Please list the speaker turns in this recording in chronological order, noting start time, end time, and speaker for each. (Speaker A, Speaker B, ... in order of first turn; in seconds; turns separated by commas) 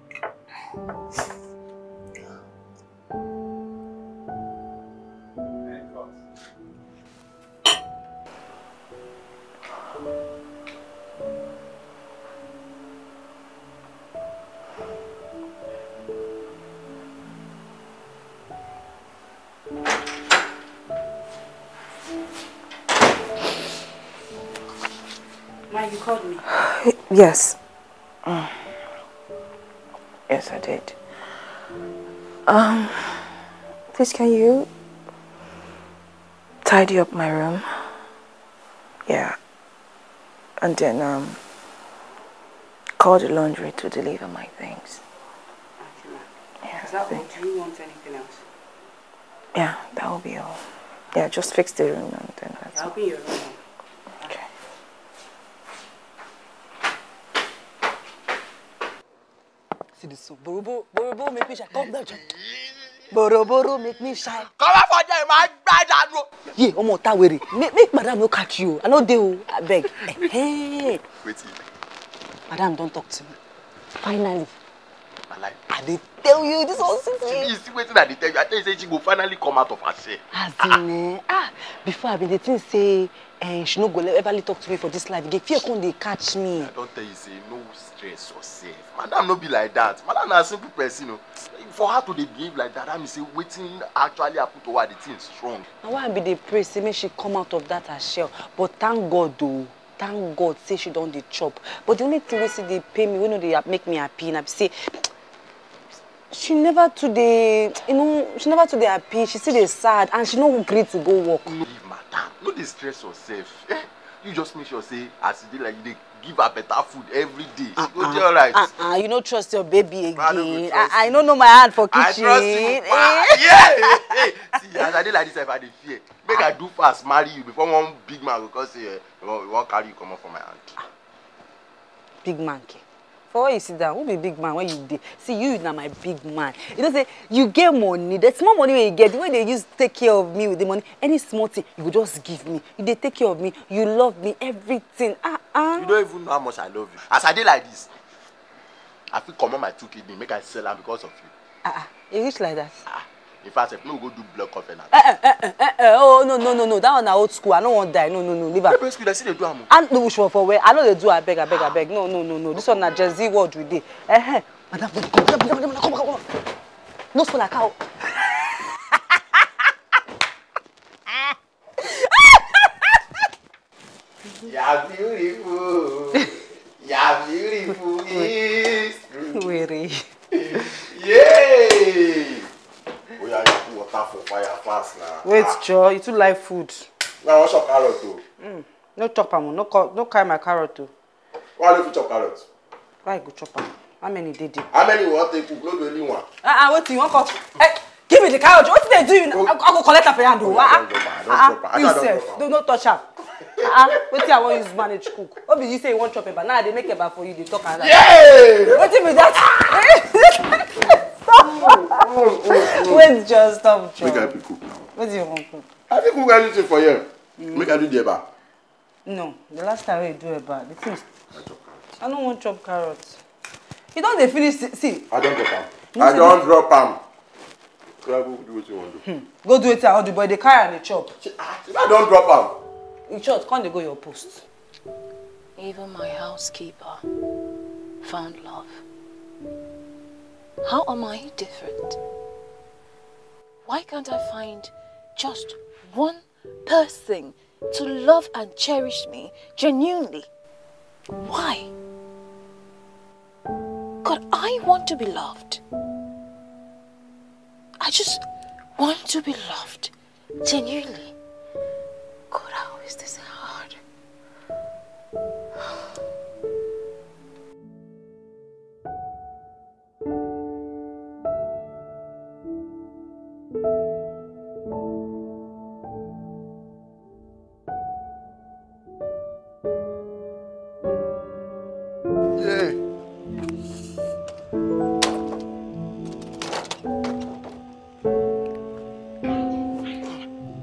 Speaker A: 5.7-6.1, Speaker B: 25.7-26.5, Speaker C: 26.5-27.6, Speaker C: 28.3-28.6, Speaker C: 30.3-31.0, Speaker C: 32.5-33.3, Speaker C: 33.9-34.7, Speaker C: 36.6-37.9, Speaker C: 39.1-39.4, Speaker C: 40.6-41.4, Speaker C: 43.0-45.0, Speaker B: 45.8-46.3, Speaker C: 46.6-47.2, Speaker B: 46.8-48.4, Speaker C: 49.5-52.9, Speaker B: 52.7-53.6, Speaker B: 60.0-62.2, Speaker B: 63.1-64.5, Speaker A: 64.5-66.3, Speaker B: 66.5-71.0, Speaker A: 71.2-71.6, Speaker B: 72.5-73.4, Speaker B: 74.0-74.5, Speaker A: 75.3-75.7, Speaker B: 75.7-77.5, Speaker A: 77.3-80.8, Speaker B: 80.3-86.7, Speaker A: 86.6-95.7, Speaker B: 95.8-105.1, Speaker B: 106.3-111.5, Speaker A: 111.5-118.7, Speaker B: 117.8-124.1, Speaker A: 120.2-121.3, Speaker A: 121.9-130.8, Speaker B: 132.2-145.9, Speaker A: 145.8-147.9, Speaker A: 149.1-151.3, Speaker B: 151.6-152.8, Speaker A: 152.9-154.9, Speaker B: 154.9-158.8, Speaker A: 158.7-159.7, Speaker B: 159.7-166.3, Speaker B: 167.1-168.6, Speaker B: 171.8-172.9, Speaker A: 174.5-179.6, Speaker B: 179.3-180.0, Speaker A: 180.3-182.5, Speaker A: 183.2-185.6, Speaker B: 185.2-186.9, Speaker A: 187.2-188.2, Speaker B: 188.4-190.9, Speaker A: 191.6-192.5, Speaker B: 193.0-194.7, Speaker A: 194.7-196.3, Speaker B: 196.4-208.1, Speaker A: 200.4-202.4, Speaker A: 207.8-209.9, Speaker B: 208.6-214.4, Speaker A: 211.4-213.1, Speaker A: 214.0-214.6, Speaker B: 214.9-215.7, Speaker A: 215.9-218.2, Speaker B: 217.4-217.7, Speaker B: 219.1-221.1, Speaker A: 221.3-221.8, Speaker B: 222.0-223.2, Speaker B: 223.9-225.1, Speaker A: 225.1-227.0, Speaker B: 225.9-226.4, Speaker A: 228.0-229.0, Speaker B: 229.1-231.1, Speaker A: 231.2-232.6, Speaker B: 233.1-234.4, Speaker D: 235.6-237.0, Speaker D: 238.0-238.8, Speaker D: 240.6-242.0, Speaker D: 243.7-250.3, Speaker D: 251.2-251.7, Speaker D: 254.0-255.6, Speaker D: 257.8-258.2, Speaker D: 258.8-259.9, Speaker D: 260.4-261.1, Speaker D: 262.3-263.8, Speaker A: 282.4-282.8